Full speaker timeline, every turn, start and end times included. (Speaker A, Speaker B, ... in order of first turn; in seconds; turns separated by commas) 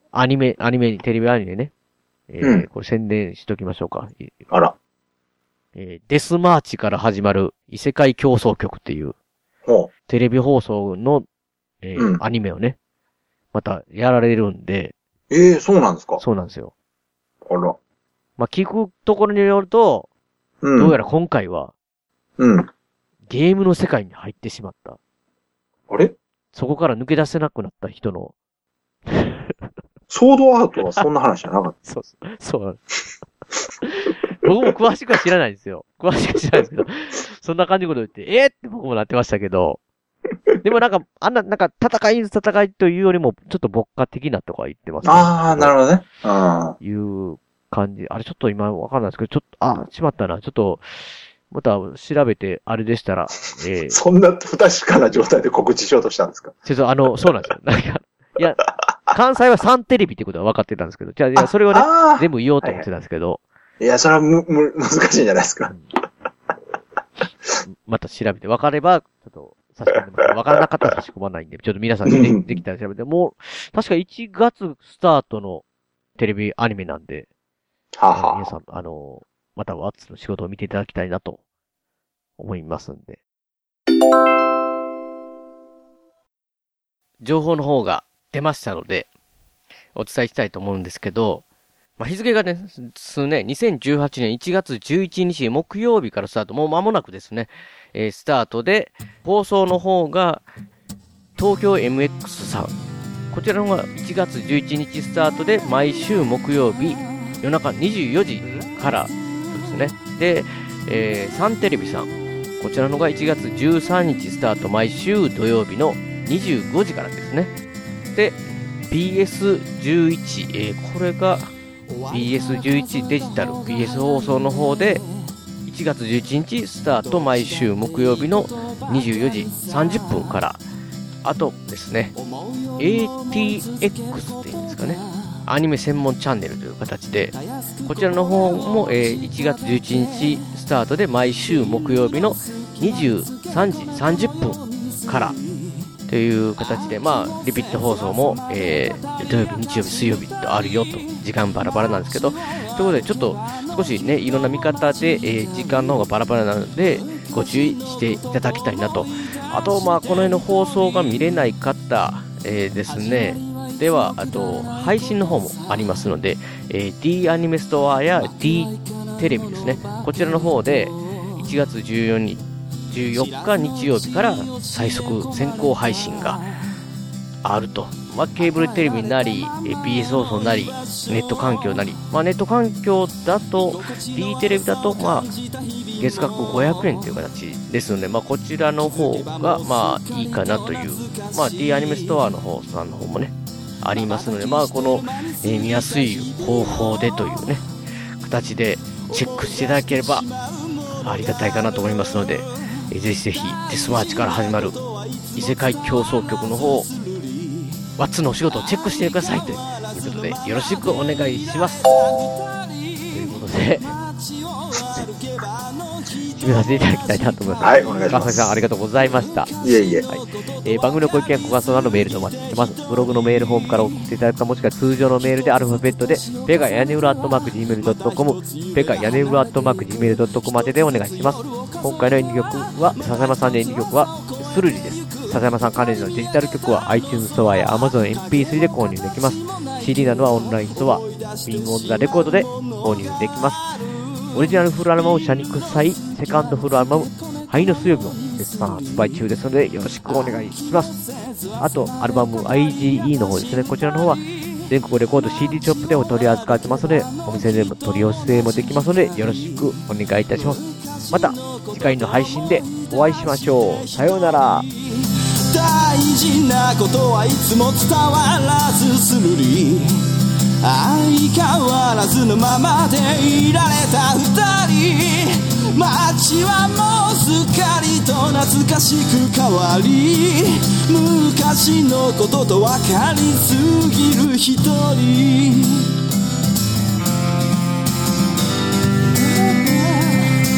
Speaker A: 0.1-1.7, Speaker A: 2.3-4.4, Speaker B: 2.4-2.7, Speaker A: 5.8-9.2, Speaker B: 9.7-9.9, Speaker A: 10.1-11.3, Speaker A: 11.8-12.8, Speaker B: 12.0-12.2, Speaker A: 13.5-14.9, Speaker B: 15.3-16.2, Speaker A: 16.2-16.7, Speaker B: 17.4-17.8, Speaker A: 18.4-20.1, Speaker B: 20.6-21.0, Speaker A: 20.8-21.7, Speaker B: 22.4-22.7, Speaker A: 23.3-25.0, Speaker B: 25.9-26.1, Speaker A: 26.5-28.3, Speaker A: 29.1-29.6, Speaker B: 30.1-31.8, Speaker A: 31.8-32.8, Speaker A: 33.8-39.8, Speaker A: 40.6-45.8, Speaker B: 45.0-46.8, Speaker A: 46.8-54.0, Speaker B: 53.9-56.5, Speaker A: 56.6-63.4, Speaker B: 61.4-62.9, Speaker B: 63.8-65.8, Speaker A: 67.7-75.6, Speaker B: 72.1-72.6, Speaker A: 76.2-77.3, Speaker B: 78.0-78.5, Speaker A: 78.1-81.4, Speaker A: 82.4-83.2, Speaker A: 87.2-89.1, Speaker A: 90.0-91.4, Speaker A: 92.0-100.5, Speaker A: 101.4-102.8, Speaker A: 103.3-117.5, Speaker A: 118.1-121.5, Speaker A: 122.1-125.0, Speaker A: 125.7-130.6, Speaker A: 131.2-132.2, Speaker A: 132.8-145.4, Speaker A: 146.1-176.4, Speaker A: 177.4-185.4, Speaker A: 186.0-197.7, Speaker A: 198.2-200.3, Speaker A: 200.9-206.9, Speaker C: 204.5-204.9, Speaker C: 206.9-207.7, Speaker A: 208.0-212.0, Speaker A: 213.1-214.0, Speaker C: 214.6-215.8, Speaker A: 216.3-219.5, Speaker B: 217.6-218.6, Speaker B: 219.6-220.1, Speaker A: 220.1-243.7, Speaker C: 241.1-241.4, Speaker A: 244.3-250.9, Speaker A: 251.6-264.7, Speaker C: 265.5-269.9, Speaker C: 270.6-285.9, Speaker C: 289.4-290.2